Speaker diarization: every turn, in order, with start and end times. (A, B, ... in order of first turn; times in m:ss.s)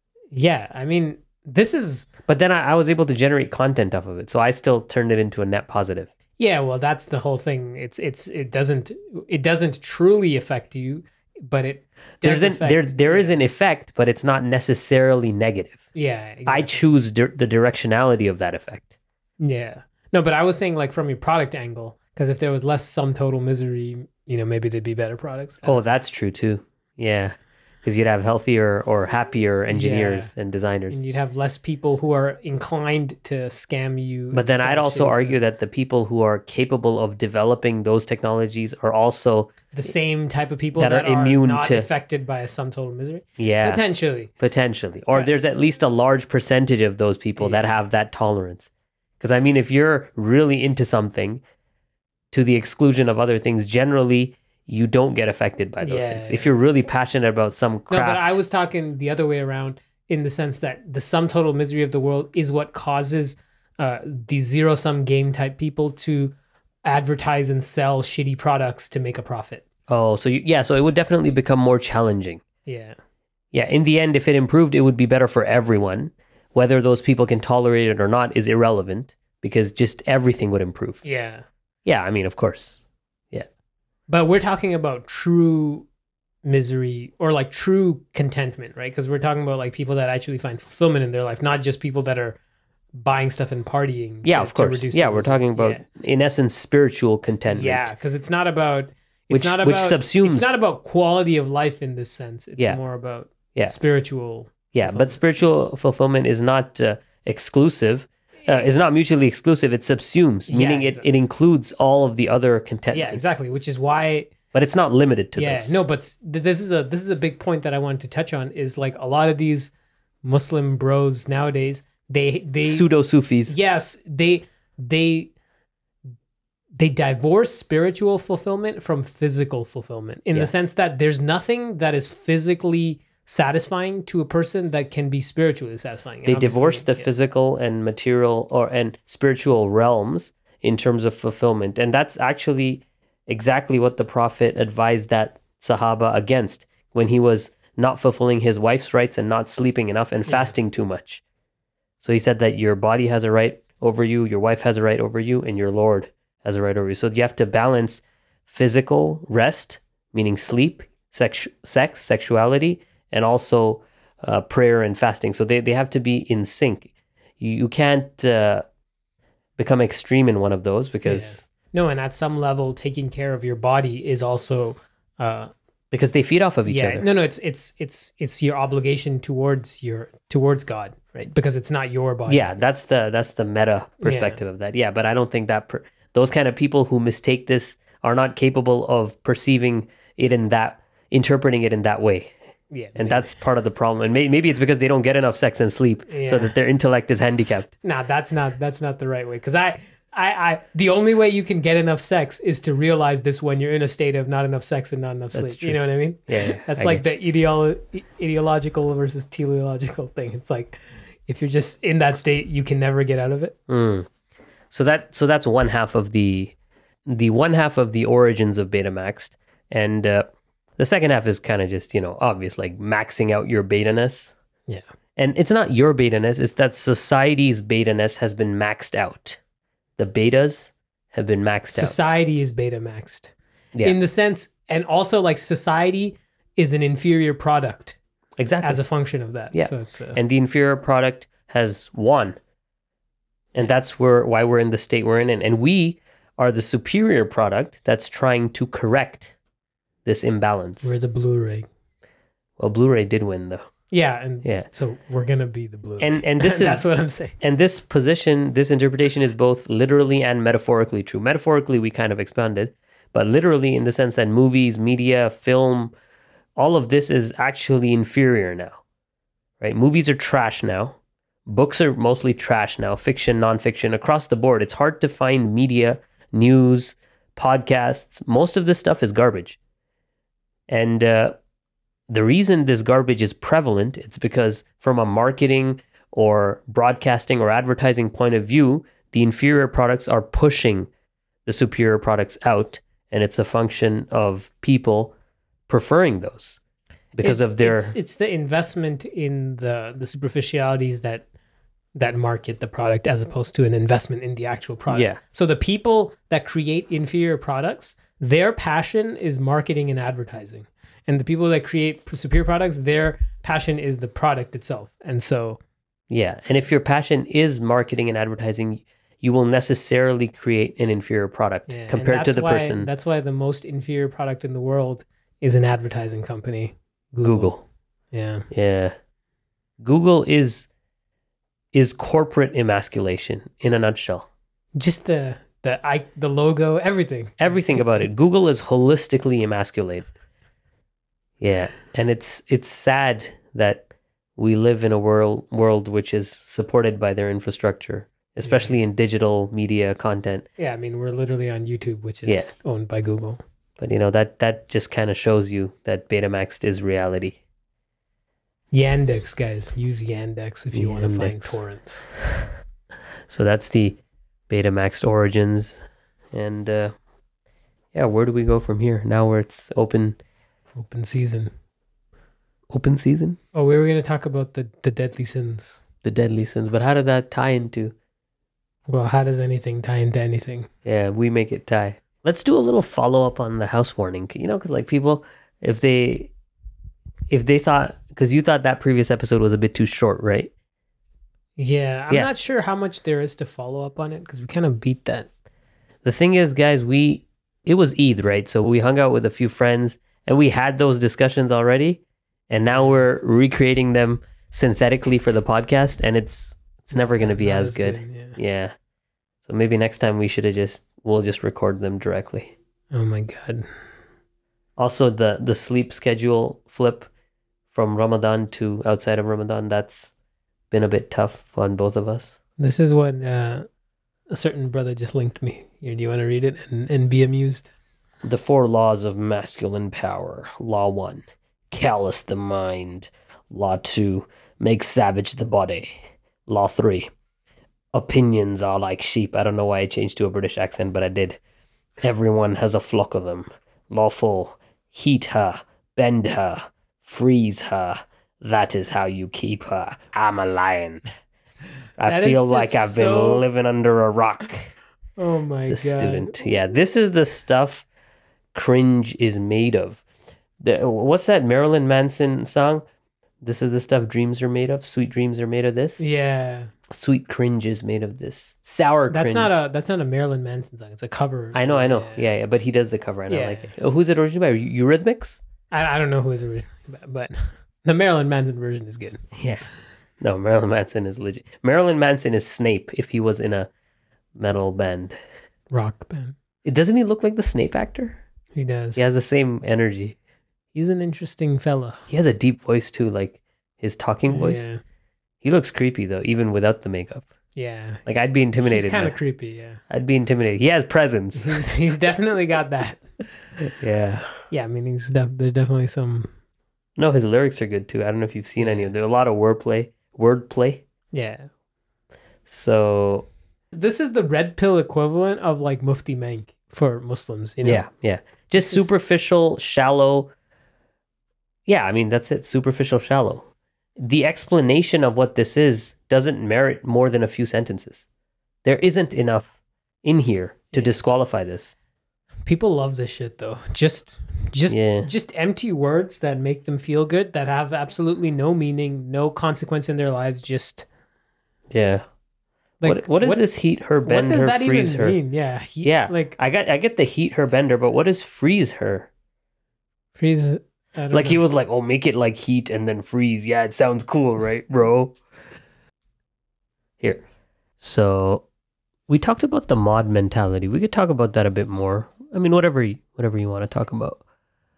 0:00.3-0:02.1 A
0:02.3-0:06.1 B
0:06.4-0:13.4 A
0:12.2-0:15.8 B
0:15.9-0:16.8 A
0:16.5-0:18.9 B
0:19.4-0:25.8 A
0:25.6-0:31.0 B
0:29.7-0:30.3 A
0:30.9-0:35.4 A
0:34.3-0:39.6 B
0:39.7-0:44.3 A
0:40.8-0:41.9 B
0:43.4-0:43.8 B
0:44.4-0:48.7 B
0:47.4-0:47.7 A
0:49.2-0:51.4 B
0:52.3-0:58.4 B
0:55.8-0:56.5 A
0:57.9-1:06.3 A
1:06.9-1:09.6 A
1:09.9-1:12.4 B
1:12.6-1:13.0 A
1:13.5-1:21.0 B
1:21.0-1:21.4 A
1:21.8-1:22.8 B
1:24.1-1:25.9 A
1:26.4-1:32.4 A
1:33.0-1:35.8 A
1:34.2-1:37.9 B
1:37.5-1:45.2 A
1:39.3-1:40.6 B
1:44.7-1:53.3 B
1:50.5-1:51.0 A
1:52.9-1:54.3 A
1:54.5-1:55.8 B
1:55.4-1:59.7 A
2:00.2-2:02.9 A
2:02.6-2:03.6 B
2:03.5-2:05.3 A
2:06.8-2:17.0 A
2:16.2-2:31.2 B
2:30.2-2:30.5 A
2:32.0-2:48.6 B
2:49.6-2:51.4 B
2:51.0-2:55.5 A
2:55.9-2:57.0 B
2:56.6-3:02.6 A
3:02.3-3:12.3 B
3:04.0-3:04.4 A
3:12.7-3:13.3 A
3:13.0-3:17.7 B
3:16.1-3:16.5 A
3:17.8-3:33.5 A
3:25.3-3:27.1 B
3:33.7-3:34.1 B
3:34.7-3:36.5 B
3:37.1-3:44.3 B
3:45.2-3:49.4 B
3:50.0-3:52.0 B
3:51.7-3:58.0 A
3:58.4-3:58.8 B
3:58.6-4:00.2 A
3:59.5-4:02.4 B
4:03.5-4:09.3 B
4:10.0-4:10.9 B
4:10.8-4:11.6 A
4:12.6-4:13.6 B
4:13.9-4:17.4 A
4:16.0-4:16.8 B
4:17.4-4:25.9 B
4:26.6-4:28.8 B
4:29.6-4:39.6 B
4:40.7-4:41.4 B
4:42.1-4:50.9 B
4:51.5-4:55.1 B
4:55.7-4:56.6 B
4:57.1-4:57.9 B
4:57.2-5:01.2 A
5:02.0-5:15.6 A
5:04.9-5:05.2 B
5:16.1-5:22.9 B
5:21.7-5:27.5 A
5:27.2-5:27.6 B
5:28.1-5:28.5 A
5:28.5-5:28.9 B
5:29.8-5:30.7 B
5:31.7-5:34.3 B
5:34.8-5:37.8 A
5:37.4-5:40.1 B
5:41.4-5:43.9 B
5:44.4-5:50.5 B
5:48.4-5:48.7 A
5:50.6-5:53.4 A
5:52.2-5:52.5 B
5:53.8-5:57.4 B
5:58.7-6:02.1 A
6:00.7-6:01.6 B
6:03.3-6:04.0 B
6:04.5-6:06.9 B
6:07.9-6:10.2 B
6:10.8-6:11.5 A
6:12.7-6:13.4 B
6:13.5-6:15.8 A
6:16.0-6:17.9 B
6:18.9-6:20.7 A
6:20.8-6:26.3 B
6:27.3-6:30.5 B
6:31.6-6:35.3 A
6:36.0-6:48.7 B
6:42.8-6:43.0 A
6:47.0-6:48.4 A
6:49.4-6:52.5 B
6:52.9-6:53.6 A
6:54.8-6:57.1 B
6:57.7-7:00.1 B
7:00.7-7:02.4 B
7:02.6-7:03.6 A
7:04.3-7:07.7 A
7:08.2-7:17.1 B
7:17.9-7:21.4 B
7:22.0-7:31.1 B
7:32.0-7:34.7 B
7:32.0-7:33.4 A
7:35.2-7:36.3 A
7:35.7-7:37.9 B
7:38.5-7:40.0 B
7:40.6-7:42.8 B
7:43.4-7:46.0 B
7:46.0-7:46.7 A
7:46.9-7:49.5 B
7:49.1-7:52.3 A
7:51.5-7:55.4 B
7:53.3-7:53.7 A
7:55.7-7:59.2 A
7:59.3-7:59.6 B
8:00.2-8:03.7 B
8:04.4-8:05.2 B
8:05.7-8:06.4 A
8:06.6-8:08.2 B
8:08.5-8:09.0 A
8:09.0-8:10.2 B
8:10.7-8:12.0 A
8:12.1-8:14.6 B
8:14.3-8:14.8 A
8:15.4-8:17.3 B
8:17.5-8:19.8 A
8:18.0-8:19.1 B
8:19.9-8:21.6 B
8:21.4-8:23.0 A
8:23.8-8:24.3 B
8:24.5-8:26.3 A
8:27.0-8:30.8 B
8:28.6-8:28.9 A
8:31.1-8:31.5 A
8:32.5-8:33.3 B
8:33.7-8:37.8 A
8:37.6-8:40.3 B
8:38.6-8:38.9 A
8:41.7-8:43.4 B
8:44.0-8:48.0 B
8:48.6-8:51.7 B
8:52.5-9:00.9 A
8:54.7-8:55.1 B
9:01.7-9:02.0 B
9:02.8-9:03.5 A
9:02.8-9:05.2 B
9:04.0-9:06.4 A
9:05.8-9:09.1 B
9:10.2-9:11.4 A
9:11.1-9:15.2 B
9:17.8-9:18.4 B
9:19.1-9:24.2 B